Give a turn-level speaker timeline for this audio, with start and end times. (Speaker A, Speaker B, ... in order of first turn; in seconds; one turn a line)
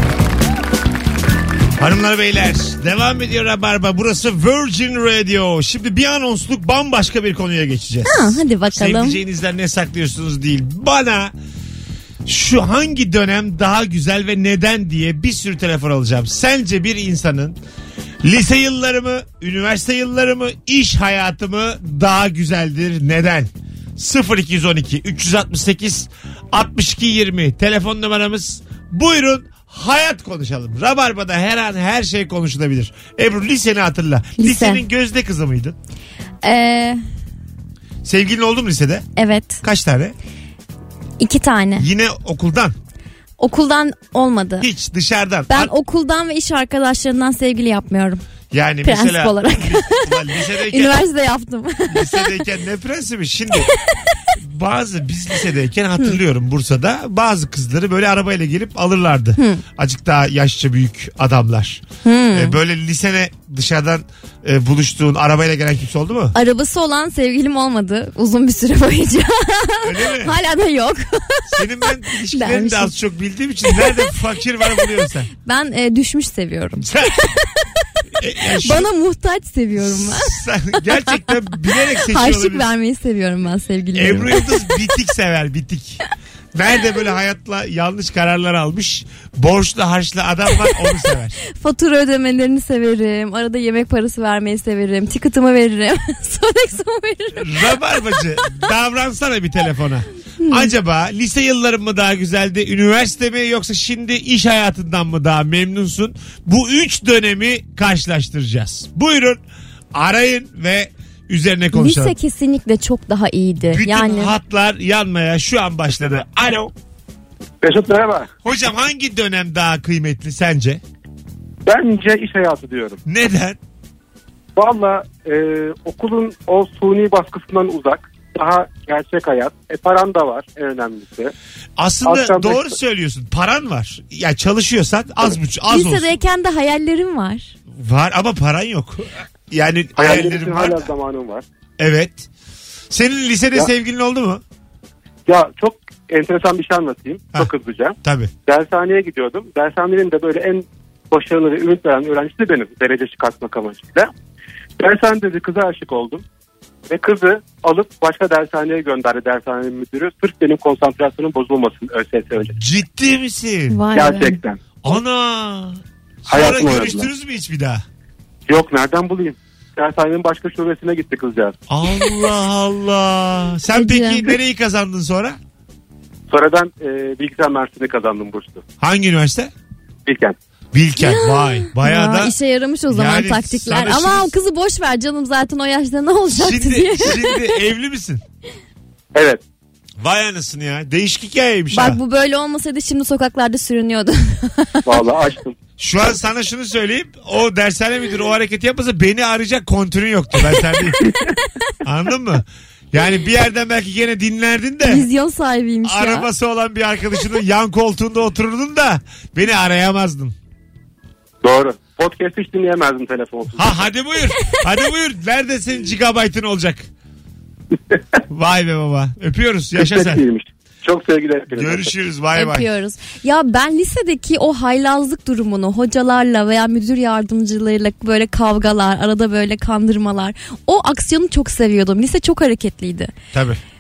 Speaker A: 1.8-11.3
Speaker B: 8.1-9.2
Speaker A: 12.3-17.6
Speaker A: 18.2-35.8
Speaker B: 34.4-34.8
Speaker B: 36.4-37.0
Speaker A: 38.0-39.1
Speaker B: 39.2-39.6
Speaker A: 39.6-40.1
Speaker B: 41.2-41.9
Speaker A: 41.8-42.8
Speaker B: 43.4-44.7
Speaker A: 44.6-45.7
Speaker B: 45.5-48.2
Speaker A: 48.5-51.0
Speaker B: 48.9-52.4
Speaker A: 51.9-53.7
Speaker A: 54.4-66.3
Speaker B: 59.4-59.6
Speaker B: 62.0-62.6
Speaker B: 66.3-71.6
Speaker A: 69.8-70.4
Speaker A: 71.5-75.3
Speaker B: 72.3-72.9
Speaker B: 75.4-77.4
Speaker A: 76.8-77.3
Speaker A: 78.2-78.9
Speaker B: 78.6-80.3
Speaker A: 79.8-82.7
Speaker B: 81.0-81.4
Speaker B: 82.1-84.7
Speaker A: 84.0-86.0
Speaker A: 86.5-91.4
Speaker B: 91.5-97.8
Speaker A: 97.4-109.4
Speaker B: 100.4-100.7
Speaker A: 109.9-112.2
Speaker B: 111.7-114.3
Speaker A: 113.7-116.7
Speaker C: 117.6-118.3
Speaker A: 118.5-120.8
Speaker C: 121.7-123.0
Speaker A: 123.1-123.6
Speaker C: 124.6-131.3
Speaker A: 131.8-136.1
Speaker C: 132.1-132.7
Speaker B: 135.7-137.5
Speaker A: 137.7-140.9
Speaker C: 140.0-141.4
Speaker A: 141.8-142.3
Speaker A: 142.9-144.4
Speaker C: 145.3-154.1
Speaker A: 148.0-148.3
Speaker C: 154.8-156.2
Speaker C: 156.9-162.6
Speaker A: 162.6-163.8
Speaker B: 163.7-164.4
Speaker C: 163.9-164.9
Speaker A: 164.8-167.8
Speaker C: 166.3-167.1
Speaker C: 168.5-171.6
Speaker A: 171.7-175.4
Speaker B: 173.7-174.3
Speaker C: 176.3-178.6
Speaker A: 178.8-179.5
Speaker C: 180.1-180.4
Speaker A: 180.7-182.3
Speaker B: 181.0-187.5
Speaker A: 182.9-184.3
Speaker A: 186.3-188.2
Speaker C: 189.1-189.4
Speaker A: 190.0-192.0
Speaker B: 191.7-195.0
Speaker C: 194.9-195.6
Speaker A: 195.8-201.0
Speaker A: 201.8-205.1
Speaker B: 204.8-206.3
Speaker A: 205.8-210.3
Speaker C: 211.4-213.7
Speaker A: 213.6-216.9
Speaker A: 218.3-220.2
Speaker C: 219.8-221.9
Speaker A: 221.5-222.7
Speaker B: 222.3-233.1
Speaker A: 233.3-233.6